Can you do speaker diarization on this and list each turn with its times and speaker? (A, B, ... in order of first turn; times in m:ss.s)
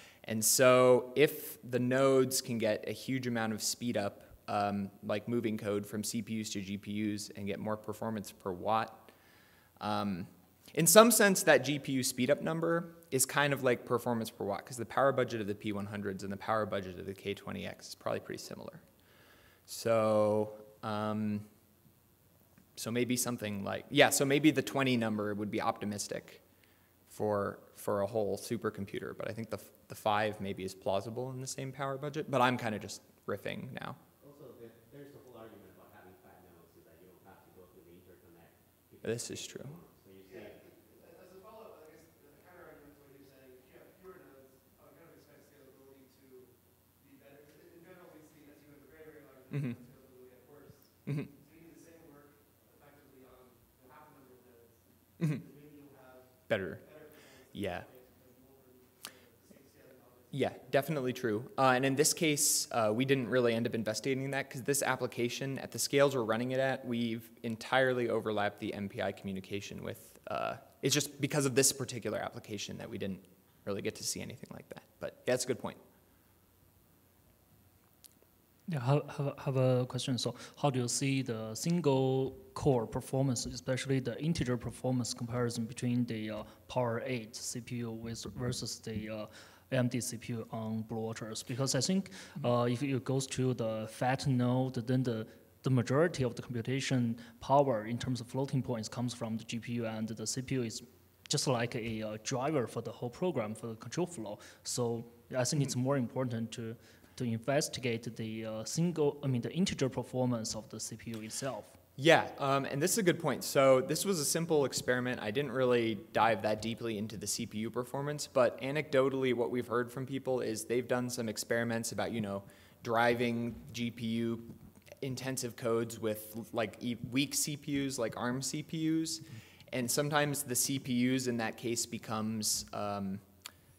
0:00.2-0:09.1 A
0:09.8-0:18.8 A
0:19.7-0:21.5 A
0:22.8-0:26.4 A
0:27.1-0:34.0 A
0:34.2-0:40.6 B
0:39.0-0:39.8 A
0:40.2-1:00.9 C
0:56.5-0:56.8 A
0:57.5-0:57.9 A
1:00.3-1:15.8 A
1:18.7-1:51.8 D
1:52.0-2:13.2 A